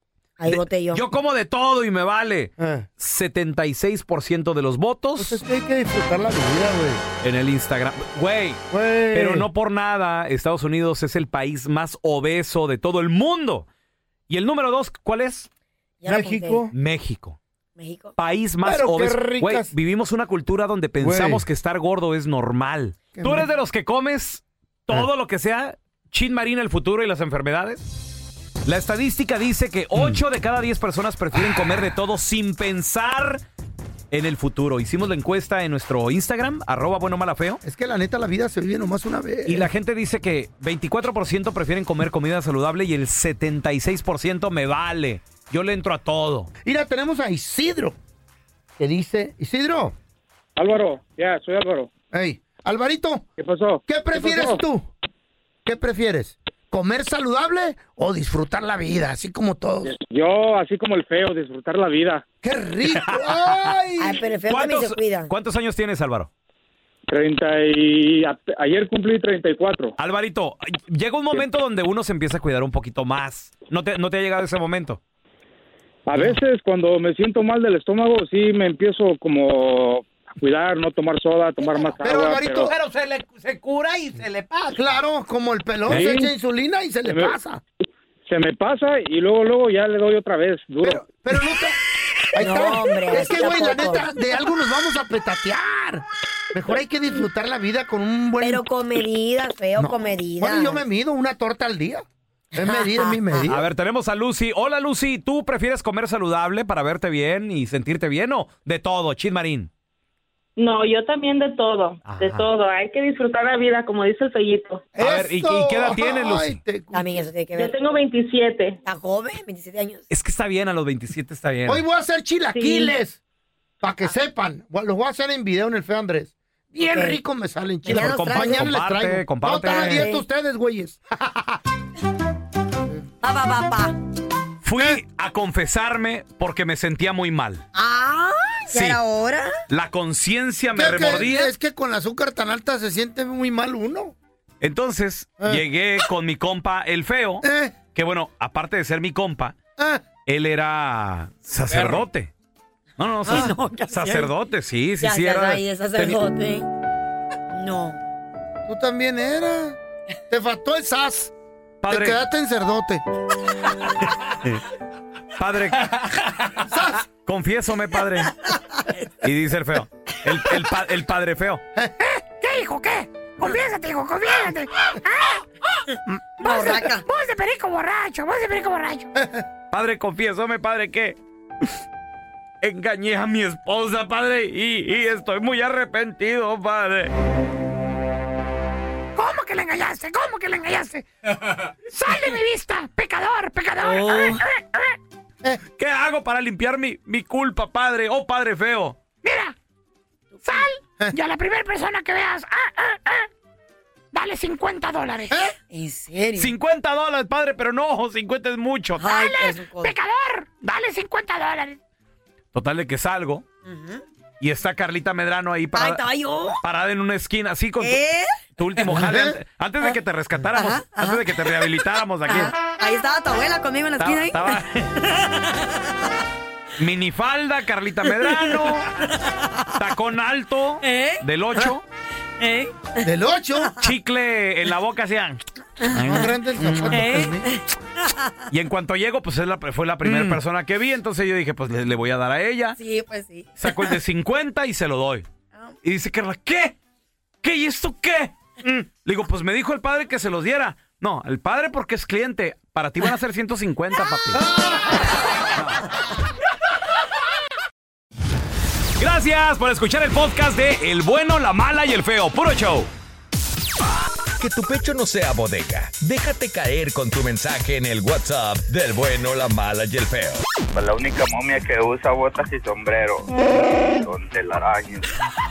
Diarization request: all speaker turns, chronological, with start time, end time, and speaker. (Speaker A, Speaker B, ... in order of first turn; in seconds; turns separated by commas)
Speaker A: 0.4-1.0, Speaker B: 0.5-5.4, Speaker C: 2.6-2.9, Speaker C: 5.2-7.0, Speaker B: 7.2-13.7, Speaker C: 8.7-9.5, Speaker B: 14.3-15.5, Speaker A: 16.0-16.6, Speaker C: 16.1-16.7, Speaker B: 16.7-17.4, Speaker A: 17.8-18.1, Speaker B: 18.2-27.8, Speaker C: 18.6-19.7, Speaker C: 21.0-21.4, Speaker C: 23.1-23.4, Speaker B: 28.6-33.4, Speaker B: 34.1-37.6, Speaker C: 37.6-39.7, Speaker B: 39.5-46.5, Speaker C: 46.6-48.0, Speaker C: 48.8-49.9, Speaker D: 50.6-51.9, Speaker C: 52.1-53.3, Speaker D: 53.4-54.6, Speaker C: 53.9-54.9, Speaker C: 55.6-59.9, Speaker D: 59.9-62.2, Speaker C: 62.4-64.2, Speaker A: 64.0-65.3, Speaker B: 64.5-66.3, Speaker D: 67.1-69.9, Speaker B: 70.0-75.0, Speaker D: 76.1-82.7, Speaker C: 82.0-82.7, Speaker B: 82.7-84.7, Speaker C: 84.7-87.6, Speaker D: 85.9-86.3, Speaker D: 87.1-87.3, Speaker D: 88.3-91.0, Speaker C: 90.8-91.8, Speaker C: 92.3-98.7, Speaker A: 92.4-94.1, Speaker A: 98.4-100.8, Speaker C: 99.8-102.0, Speaker A: 102.5-103.5, Speaker C: 102.5-103.6, Speaker B: 103.5-109.7, Speaker E: 110.6-114.8, Speaker B: 112.0-112.5, Speaker C: 114.9-117.2, Speaker B: 115.0-116.6, Speaker A: 116.9-117.7, Speaker E: 117.5-118.8, Speaker A: 118.8-120.0, Speaker B: 120.1-121.8, Speaker C: 121.7-123.2, Speaker C: 123.8-131.6, Speaker A: 126.9-127.2, Speaker A: 127.8-128.7, Speaker B: 127.8-130.1, Speaker A: 129.6-130.2, Speaker A: 133.2-133.9, Speaker B: 134.6-137.7, Speaker A: 137.7-139.5, Speaker B: 138.7-139.0, Speaker B: 139.7-141.5, Speaker C: 140.7-144.1, Speaker B: 144.6-147.4, Speaker C: 147.4-147.7, Speaker B: 147.9-149.6, Speaker C: 149.8-150.0, Speaker B: 150.3-152.3, Speaker B: 153.0-156.2, Speaker A: 153.2-154.3, Speaker A: 155.0-156.7, Speaker A: 157.5-158.0, Speaker C: 158.7-159.8, Speaker C: 160.3-161.3, Speaker B: 161.8-162.2, Speaker C: 161.9-163.0, Speaker B: 165.4-165.9, Speaker C: 166.7-167.0, Speaker B: 167.2-168.3, Speaker B: 169.2-171.6, Speaker F: 172.4-175.4, Speaker A: 176.4-177.0, Speaker F: 176.4-179.1, Speaker B: 179.7-181.2, Speaker B: 182.6-187.1, Speaker F: 189.1-191.0, Speaker F: 191.9-194.9, Speaker A: 193.8-194.4, Speaker B: 195.8-199.0, Speaker F: 199.2-199.5, Speaker A: 200.4-200.6, Speaker F: 200.4-203.3, Speaker F: 204.1-205.4, Speaker A: 205.7-206.5, Speaker B: 206.3-209.1, Speaker A: 209.0-209.9, Speaker F: 209.1-211.8, Speaker B: 212.5-213.4, Speaker A: 213.6-214.0, Speaker B: 214.4-216.0, Speaker A: 215.7-216.6, Speaker B: 216.6-218.0, Speaker A: 217.8-218.3, Speaker B: 218.6-222.5, Speaker C: 218.9-219.3, Speaker A: 220.5-221.7, Speaker A: 222.3-225.7, Speaker B: 224.0-224.9, Speaker B: 226.8-228.9, Speaker A: 228.2-229.5, Speaker B: 229.8-231.8, Speaker A: 230.8-231.2, Speaker A: 232.4-233.0, Speaker C: 233.0-233.7, Speaker B: 233.8-235.4, Speaker A: 235.8-236.3, Speaker C: 235.9-237.5, Speaker B: 236.1-237.1, Speaker A: 236.9-238.3, Speaker B: 238.5-242.8, Speaker C: 240.0-240.4, Speaker A: 242.8-243.9, Speaker B: 243.6-245.2, Speaker B: 245.8-246.8, Speaker B: 247.4-248.3, Speaker B: 249.0-254.4, Speaker C: 254.4-254.8, Speaker B: 255.5-255.8, Speaker B: 259.0-262.9, Speaker G: 264.4-270.4, Speaker H: 270.7-273.3, Speaker H: 273.9-275.1